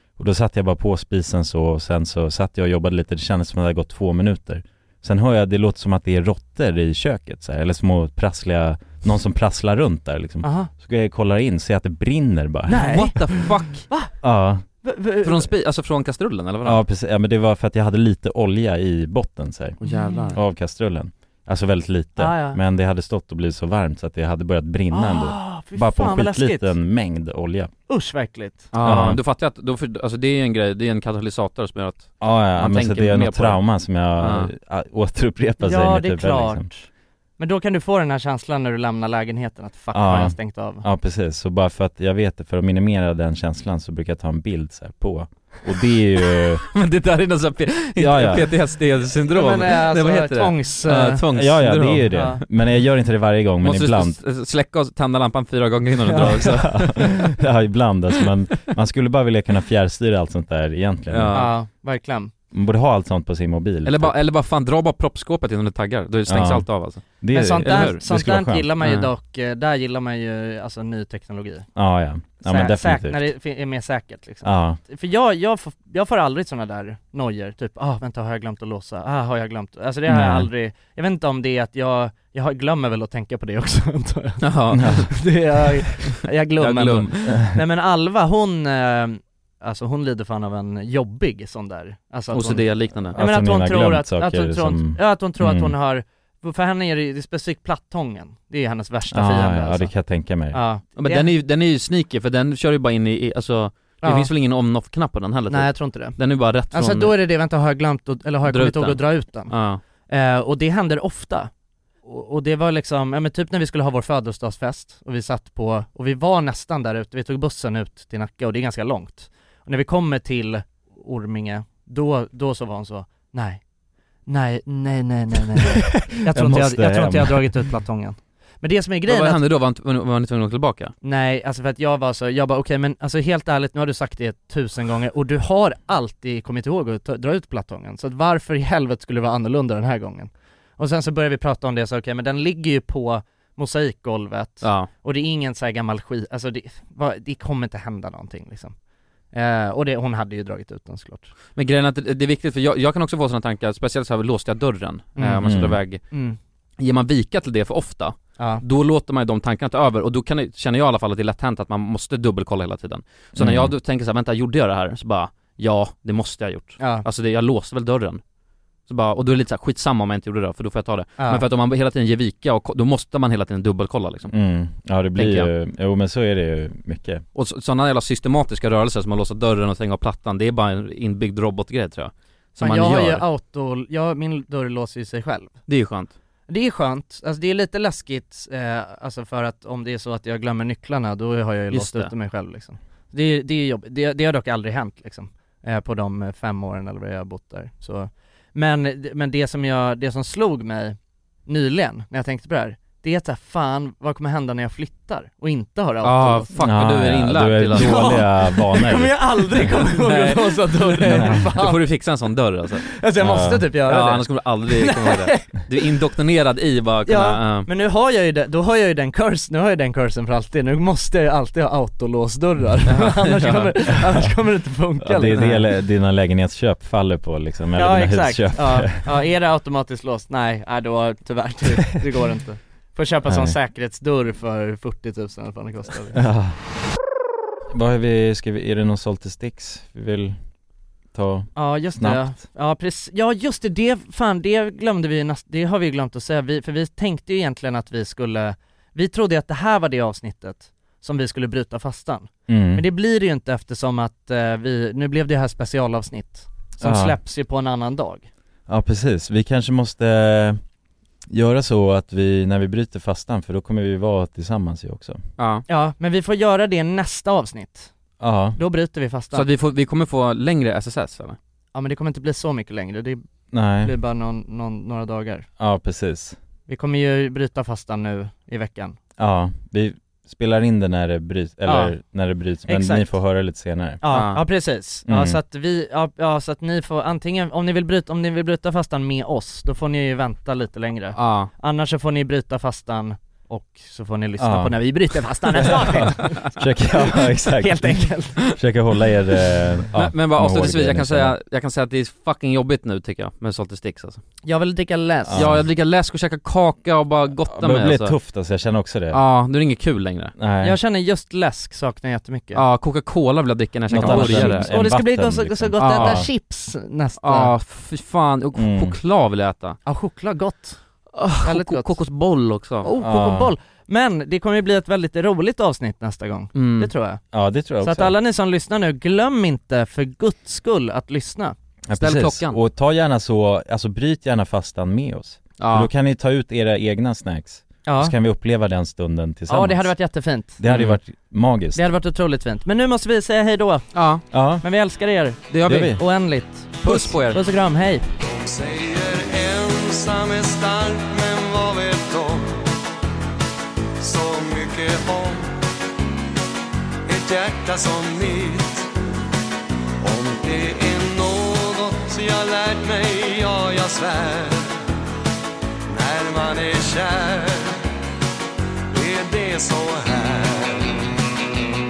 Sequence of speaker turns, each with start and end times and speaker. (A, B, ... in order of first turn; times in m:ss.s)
0:00.2-0:12.8 A
0:10.4-0:10.7 B
0:12.7-0:14.1 B
0:12.7-0:13.9 C
0:14.2-0:14.6 A
0:14.8-0:15.5 B
0:15.2-0:16.8 C
0:16.6-0:19.8 A
0:19.8-0:20.4 C
0:19.8-0:20.3 B
0:20.3-0:27.7 A
0:22.2-0:22.6 B
0:24.9-0:26.7 B
0:27.9-0:28.7 B
0:28.7-0:33.6 C
0:28.8-0:29.2 A
0:32.2-0:36.7 A
0:34.2-0:34.5 C
0:35.6-0:40.8 B
0:39.9-0:46.6 A
0:46.7-0:52.2 C
0:48.0-0:48.5 A
0:49.2-0:51.2 B
0:51.3-0:54.2 A
0:52.1-0:52.4 B
0:53.6-0:57.1 C
0:56.0-0:56.7 B
0:56.2-1:01.5 A
1:01.1-1:01.5 C
1:01.3-1:02.3 B
1:02.5-1:04.1 A
1:03.8-1:08.0 C
1:06.3-1:08.7 A
1:07.3-1:11.7 B
1:08.8-1:09.1 C
1:11.7-1:13.3 A
1:12.4-1:39.9 B
1:14.4-1:14.8 A
1:20.1-1:20.5 A
1:24.4-1:25.2 C
1:24.7-1:25.1 A
1:26.6-1:27.4 C
1:32.3-1:33.2 C
1:33.1-1:35.7 A
1:39.1-1:40.6 A
1:40.5-1:41.3 B
1:41.0-1:47.1 C
1:44.0-1:44.3 B
1:45.5-1:46.2 B
1:46.7-1:51.5 B
1:48.4-1:49.8 C
1:52.0-2:03.6 B
2:04.3-2:09.4 B
2:05.9-2:07.6 A
2:09.1-2:10.9 C
2:11.0-2:28.7 B
2:24.6-2:24.9 C
2:29.3-2:31.3 B
2:31.5-2:36.0 C
2:35.2-2:35.5 B
2:35.4-2:35.8 A
2:36.1-2:36.4 B
2:36.8-2:48.2 C
2:38.4-2:38.6 B
2:43.4-2:43.7 A
2:46.8-2:47.0 B
2:48.9-2:54.3 C
2:51.2-2:51.4 B
2:54.3-2:57.2 A
2:55.1-2:55.5 C
2:57.3-3:03.2 C
3:02.6-3:05.6 B
3:05.7-3:06.1 C
3:06.5-3:26.5 B
3:11.7-3:12.1 C
3:26.0-3:28.2 C
3:26.6-3:29.7 A
3:27.7-3:31.8 B
3:29.7-3:32.9 C
3:31.1-3:31.4 A
3:32.8-3:35.8 B
3:33.2-3:33.7 A
3:33.9-3:37.7 C
3:37.0-3:45.4 B
3:42.8-3:43.9 C
3:45.0-3:49.0 A
3:45.3-3:45.6 C
3:47.7-3:56.2 B
3:53.2-3:53.6 A
3:56.1-3:56.6 A
3:57.7-4:00.4 A
4:01.1-4:02.3 A
4:01.6-4:18.3 B
4:12.5-4:12.8 A
4:16.8-4:17.2 A
4:18.7-4:20.6 A
4:21.3-4:25.2 A
4:25.4-4:25.6 C
4:25.7-4:27.9 B
4:28.2-4:28.6 A
4:28.6-4:29.5 B
4:29.3-4:31.4 C
4:31.7-4:33.2 B
4:33.5-4:33.9 A
4:33.8-4:35.5 B
4:35.6-4:36.4 A
4:36.7-4:39.0 B
4:39.2-4:44.0 A
4:41.6-4:41.9 B
4:42.6-4:43.1 B
4:44.0-4:56.4 B
4:44.1-4:44.4 C
4:45.1-4:45.4 A
4:51.1-4:51.5 C
4:54.4-4:54.8 A
4:55.9-5:01.4 A
4:57.6-4:58.4 B
4:59.9-5:04.2 C
5:04.4-5:05.4 B
5:05.3-5:05.6 A
5:05.3-5:08.1 C
5:07.4-5:09.2 A
5:09.1-5:10.3 C
5:10.4-5:10.8 A
5:10.6-5:12.6 B
5:12.5-5:14.7 C
5:13.9-5:16.3 A
5:14.0-5:17.5 B
5:15.8-5:16.2 C
5:17.2-5:19.8 C
5:18.5-5:19.0 A
5:19.8-5:20.8 B
5:21.1-5:22.9 C
5:21.4-5:22.0 B
5:22.8-5:27.2 B
5:23.0-5:23.5 A
5:26.5-5:26.9 C
5:27.3-5:28.1 A
5:27.8-5:31.5 B
5:31.9-5:39.9 A
5:32.0-5:32.6 C
5:35.6-5:35.9 C
5:37.8-5:38.1 B
5:39.5-5:40.6 B
5:40.6-5:41.8 A
5:40.7-5:41.0 C
5:41.7-5:44.0 B
5:43.9-5:44.2 C
5:44.3-5:44.6 A
5:44.6-5:48.0 B
5:45.5-5:46.0 C
5:45.6-5:46.0 A
5:46.8-5:47.4 C
5:48.2-5:52.6 D
5:54.0-5:55.6 D
5:57.0-5:58.9 D
6:00.0-6:04.8 D
6:05.9-6:07.8 D
6:08.9-6:11.1 D